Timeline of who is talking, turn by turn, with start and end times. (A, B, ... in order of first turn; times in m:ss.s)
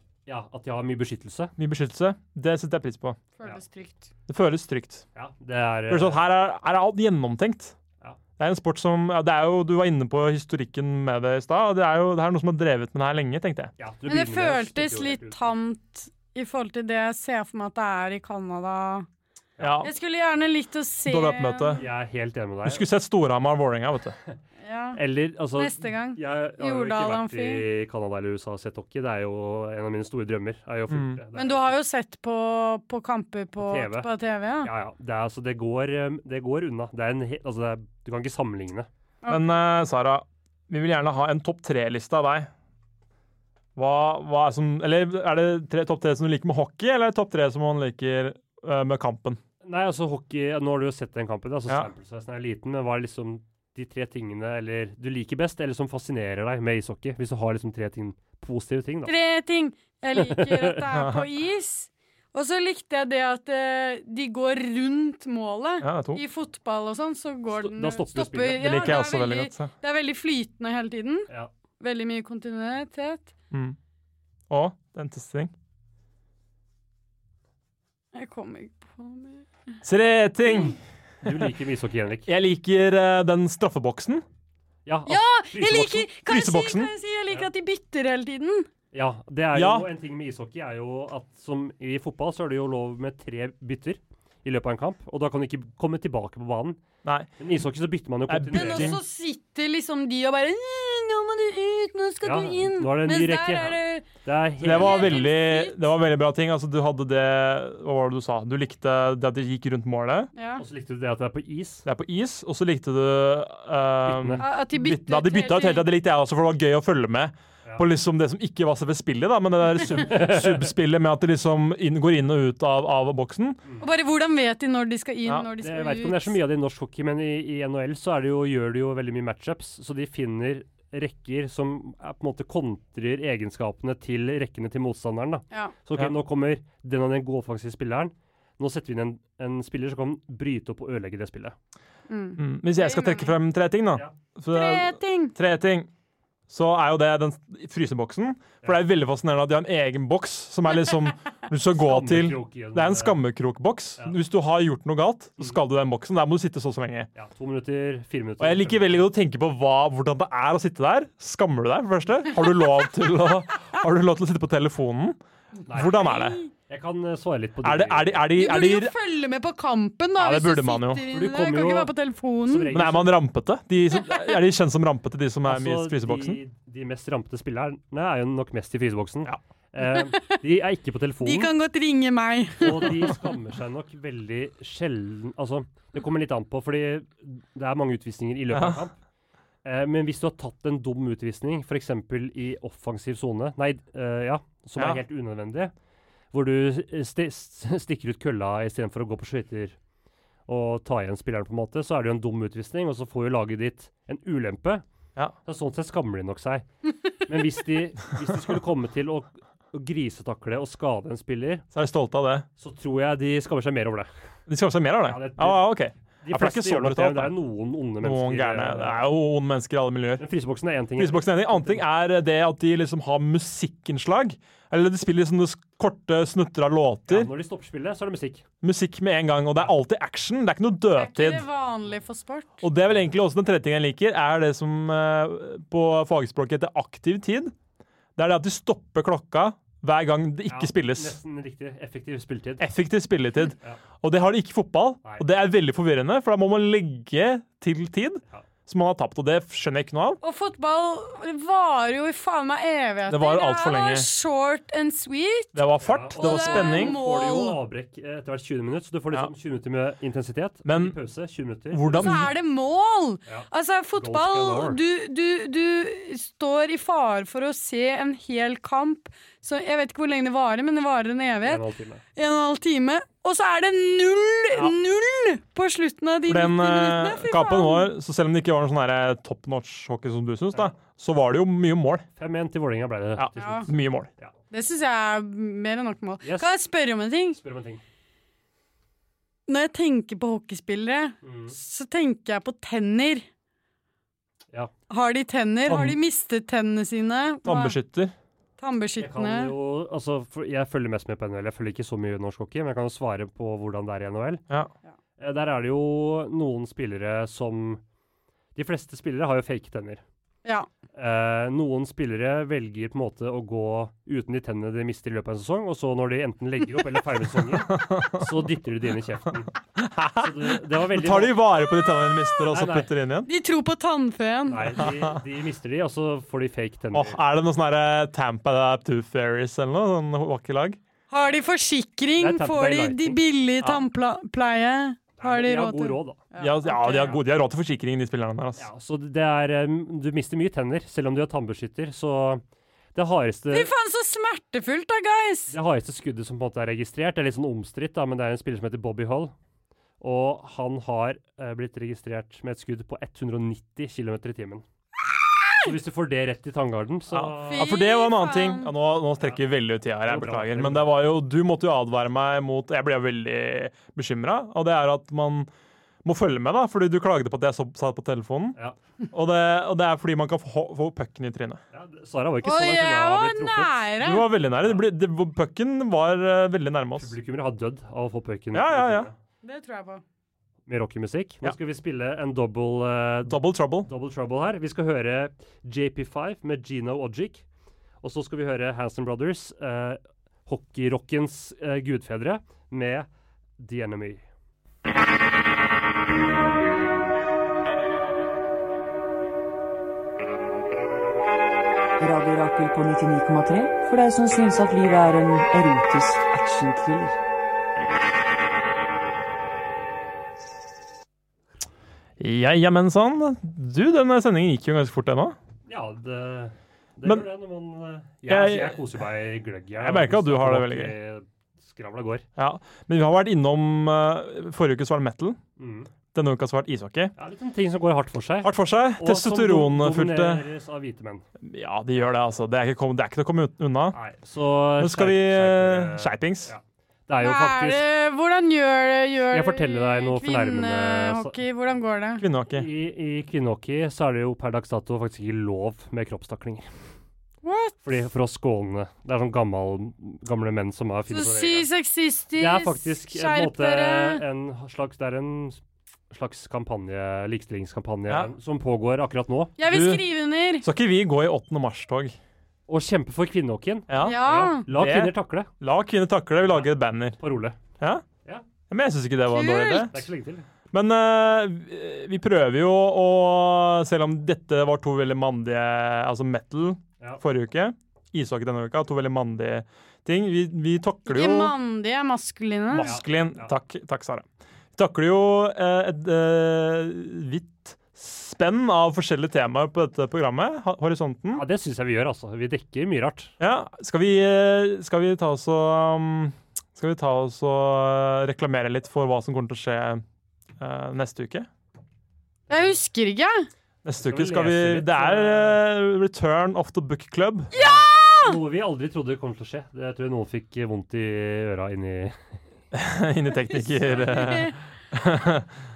0:00.2-0:01.5 A
0:01.6-0:03.2 B
0:03.4-0:04.1 C
0:04.3-0:05.0 B
0:05.1-0:06.2 A
0:05.9-0:07.7 B
0:08.4-0:13.7 B
0:13.8-0:15.5 A
0:14.1-0:19.1 C
0:19.6-0:19.9 B
0:19.8-0:21.8 C
0:21.0-0:21.8 B
0:21.7-0:22.8 A
0:22.6-0:24.2 B
0:24.6-0:25.0 C
0:25.0-0:31.7 A
0:25.6-0:27.6 C
0:30.9-0:31.2 B
0:31.3-0:34.7 C
0:33.6-0:34.1 A
0:34.6-0:38.9 A
0:39.2-0:39.5 C
0:39.3-0:42.5 B
0:43.8-0:49.4 B
0:49.6-0:59.1 A
0:59.0-1:13.3 C
1:00.1-1:00.8 A
1:00.9-1:01.3 B
1:05.8-1:06.2 B
1:07.5-1:08.9 A
1:08.5-1:09.7 B
1:13.5-1:13.8 B
1:14.5-1:15.5 B
1:18.1-1:19.4 C
1:19.8-1:20.8 B
1:20.5-1:20.7 C
1:21.2-1:22.3 A
1:22.3-1:24.2 B
1:24.8-1:25.9 A
1:25.1-1:28.7 C
1:25.6-1:26.9 B
1:28.9-1:36.8 A
1:29.5-1:29.9 B
1:37.0-1:37.3 B
1:37.4-1:39.0 A
1:38.3-1:39.0 B
1:38.5-1:44.1 C
1:42.2-1:45.2 A
1:44.6-1:50.3 B
1:44.7-1:45.8 C
1:50.4-1:50.6 C
1:50.6-1:51.8 A
1:51.8-2:03.6 B
1:54.0-1:54.4 A
1:54.4-1:55.9 C
2:00.0-2:00.7 A
2:03.8-2:06.4 C
2:05.6-2:21.6 A
2:22.1-2:23.4 C
2:22.4-2:25.9 B
2:24.5-2:25.3 C
2:26.5-2:37.1 B
2:31.8-2:33.2 A
2:37.1-2:39.1 A
2:38.4-2:45.2 B
2:45.7-2:46.0 A
2:45.7-2:46.4 B
2:45.7-2:46.5 C
2:46.7-2:48.3 A
2:47.6-2:48.9 B
2:48.3-2:52.8 C
2:50.2-2:51.0 B
2:51.1-2:51.9 A
2:52.4-2:53.2 A
2:52.7-2:56.4 B
2:54.0-2:54.4 C
2:55.5-3:01.5 A
2:59.8-3:00.4 C
3:01.2-3:03.2 C
3:02.6-3:09.0 A
3:08.5-3:08.8 B
3:09.6-3:15.7 A
3:16.3-3:19.8 A
3:20.5-3:24.8 A
3:25.4-3:26.7 A
3:27.2-3:31.6 A
3:31.7-3:32.5 B
3:32.6-3:34.1 A
3:34.5-3:37.4 B
3:35.0-3:39.1 A
3:38.0-3:40.2 B
3:40.2-3:41.8 A
3:41.0-3:47.3 B
3:47.1-3:48.4 A
3:48.6-3:51.4 B
3:51.0-3:52.6 C
3:52.6-3:57.5 B
3:58.2-4:01.2 B
4:00.5-4:02.7 A
4:02.6-4:10.2 B
4:10.2-4:15.6 C
4:13.1-4:14.1 B
4:15.5-4:17.0 B
4:15.8-4:22.2 A
4:16.2-4:17.6 C
4:20.6-4:21.0 B
4:21.7-4:22.3 B
4:21.9-4:31.6 C
4:23.3-4:24.8 A
4:31.4-4:32.0 A
4:32.1-4:37.9 C
4:36.3-4:42.0 B
4:42.2-4:44.3 A
4:43.2-4:44.1 B
4:43.4-4:43.6 C
4:44.5-4:47.4 C
4:46.2-4:46.5 A
4:47.3-4:47.8 A
4:49.5-4:53.2 C
4:51.2-4:51.6 A
4:54.9-4:57.8 C
4:55.6-4:56.0 B
4:57.4-4:58.1 B
4:58.6-4:59.5 C
4:59.0-5:04.4 A
5:05.2-5:07.8 A
5:08.6-5:10.0 A
5:10.9-5:19.5 A
5:17.5-5:18.4 B
5:19.7-5:23.3 B
5:20.2-5:21.4 A
5:22.5-5:22.9 A
5:23.3-5:24.8 C
5:24.5-5:27.2 A
5:24.8-5:25.2 B
5:26.9-5:30.8 B
5:31.1-5:37.2 C
5:32.2-5:33.2 A
5:35.2-5:36.2 A
5:36.4-5:38.6 B
5:38.6-5:42.4 A
5:42.9-5:43.7 A
5:43.5-5:45.5 C
5:45.5-5:49.3 A
5:50.0-5:54.6 A
5:55.1-5:55.7 C
5:55.6-5:57.6 A
5:57.1-6:05.5 B
5:57.5-5:58.7 C
5:59.2-5:59.4 A
6:00.0-6:00.9 A
6:06.0-6:08.6 B
6:09.1-6:11.6 B
6:11.7-6:13.7 A
6:12.4-6:14.3 C
6:14.0-6:17.1 B
6:17.0-6:19.2 A
6:18.5-6:19.1 B
6:19.4-6:20.0 C
6:20.7-6:27.4 A
6:23.2-6:23.9 B
6:28.0-6:33.1 A
6:33.6-6:34.2 A
6:42.0-6:47.2 D
6:52.2-6:55.4 B
6:55.7-7:02.2 A
6:58.2-6:58.8 B
6:59.8-7:00.9 B
7:02.4-7:05.4 B
7:05.6-7:05.9 A
7:06.1-7:07.1 B
7:07.2-7:11.2 A
7:08.4-7:10.5 B
7:11.4-7:14.0 B
7:13.9-7:17.8 A
7:14.8-7:16.5 B
7:17.2-7:22.2 C
7:19.3-7:21.4 A
7:22.2-7:22.7 B
7:22.5-7:26.7 A
7:27.4-7:27.7 C
7:27.8-7:31.7 A
7:31.1-7:34.2 C
7:32.4-7:39.5 A
7:39.6-7:40.6 C
7:39.7-7:40.0 B
7:40.6-7:42.2 B
7:42.7-7:45.5 A
7:43.9-7:47.2 B
7:44.0-7:44.6 C
7:46.4-7:47.6 A
7:47.8-7:48.0 B
7:48.7-7:50.0 B
7:49.3-7:49.9 C
7:49.9-7:50.4 A
7:50.7-8:01.5 B
8:01.0-8:02.9 C
8:02.7-8:11.4 B
8:02.8-8:03.5 A
8:11.3-8:13.3 A
8:13.4-8:20.0 B
8:20.6-8:21.5 B
8:22.5-8:23.5 C
8:23.8-8:27.5 B
8:24.0-8:25.6 A
8:27.5-8:28.4 C
8:27.5-8:32.2 A
8:32.7-8:35.5 B
8:33.3-8:34.6 C